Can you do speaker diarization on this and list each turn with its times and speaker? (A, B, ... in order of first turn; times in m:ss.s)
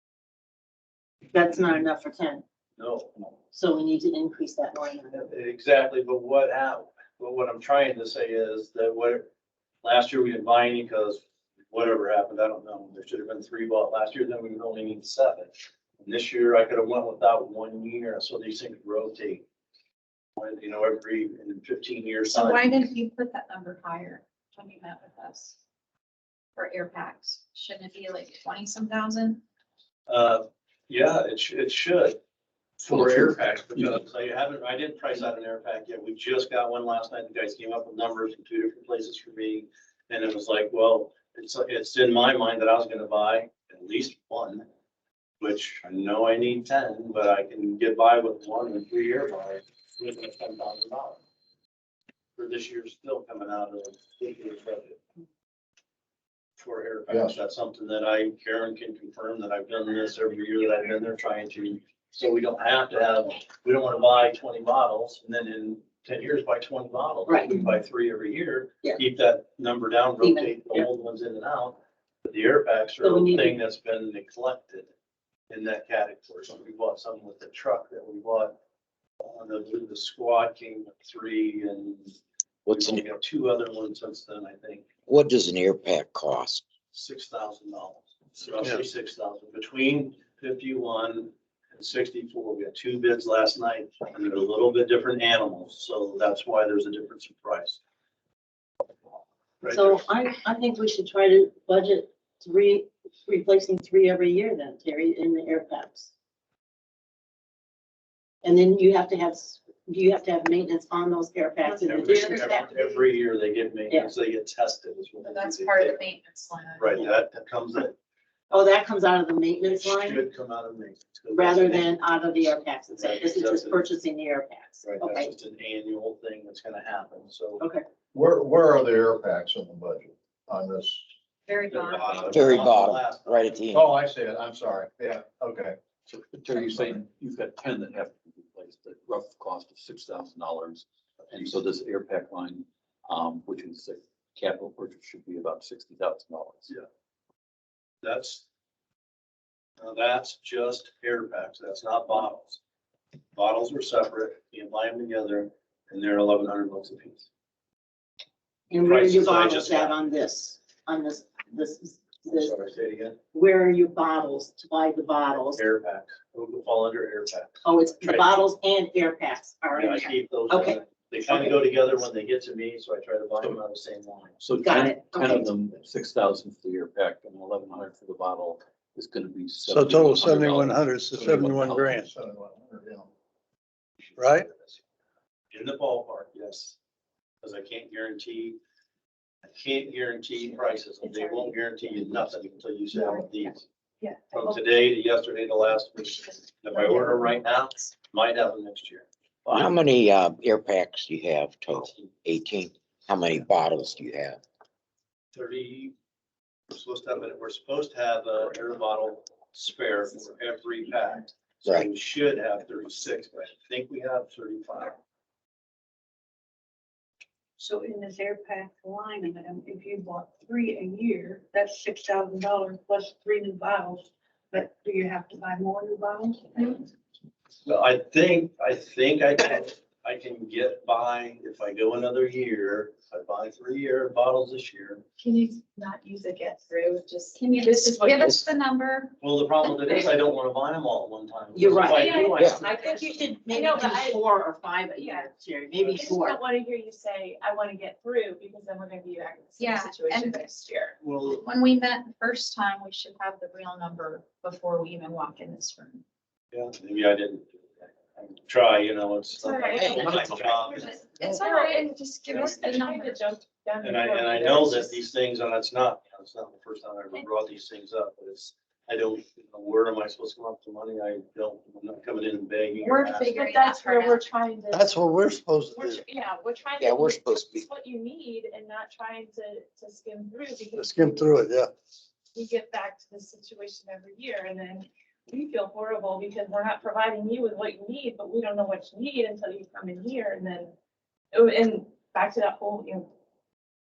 0:01.2-0:02.4 A
0:02.8-0:03.3 B
0:03.5-0:05.2 A
0:05.1-0:09.3 B
0:09.8-0:19.4 B
0:20.4-0:22.6 B
0:22.3-0:25.6 C
0:26.6-0:29.4 C
0:30.1-0:32.2 B
0:32.8-0:44.7 B
0:32.9-0:34.0 D
0:45.4-0:51.2 B
0:52.4-0:55.0 B
0:56.6-1:14.9 B
0:57.1-0:57.4 E
1:07.3-1:07.6 A
1:10.2-1:10.9 A
1:13.0-1:13.6 A
1:15.5-1:18.6 B
1:19.2-1:24.8 B
1:22.7-1:23.0 F
1:25.1-1:26.6 F
1:26.9-1:37.8 B
1:28.6-1:28.9 G
1:39.6-1:40.0 B
1:39.7-1:46.1 A
1:48.4-1:52.8 A
1:51.7-1:53.0 C
1:51.8-1:56.0 B
1:55.2-1:57.1 C
1:56.8-1:58.0 B
1:58.5-2:00.2 A
1:59.6-2:01.9 B
2:01.3-2:05.3 A
2:03.0-2:03.9 B
2:04.8-2:07.7 B
2:08.1-2:11.1 E
2:11.5-2:12.6 C
2:11.7-2:13.6 B
2:12.3-2:13.9 F
2:13.7-2:15.8 E
2:16.1-2:26.7 D
2:16.5-2:17.0 E
2:28.0-2:28.4 B
2:29.8-2:32.6 B
2:33.4-2:37.3 B
2:38.7-2:42.6 A
2:38.8-2:40.0 B
2:42.3-2:43.2 B
2:43.3-2:45.6 A
2:45.5-2:48.4 B
2:47.6-2:51.6 A
2:49.8-2:54.4 B
2:54.4-3:02.0 D
2:54.6-2:55.5 A
2:59.7-3:02.1 G
3:01.9-3:03.1 E
3:04.2-3:04.5 G
3:05.5-3:06.8 B
3:07.4-3:08.6 B
3:09.5-3:13.6 B
3:12.9-3:14.6 H
3:14.3-3:19.7 B
3:16.7-3:17.2 H
3:19.5-3:24.4 F
3:25.3-3:25.9 B
3:26.7-3:35.0 B
3:31.6-3:31.9 F
3:37.6-3:46.9 H
3:47.7-3:55.0 B
3:55.2-3:59.2 C
3:57.6-3:58.4 I
3:59.2-4:02.7 B
4:01.5-4:06.4 A
4:01.8-4:04.2 I
4:05.0-4:05.3 I
4:05.8-4:06.1 B
4:05.9-4:11.0 I
4:09.6-4:10.5 C
4:11.0-4:11.5 B
4:11.2-4:16.0 C
4:16.5-4:21.1 B
4:19.3-4:20.6 I
4:19.8-4:20.6 F
4:20.7-4:23.2 C
4:21.2-4:25.0 I
4:22.3-4:22.6 B
4:23.8-4:33.3 B
4:32.8-4:34.2 C
4:33.1-4:34.9 I
4:34.7-4:36.0 G
4:35.8-4:41.4 I
4:36.8-4:37.7 F
4:40.7-4:41.7 G
4:42.3-4:50.7 I
4:51.3-4:53.1 I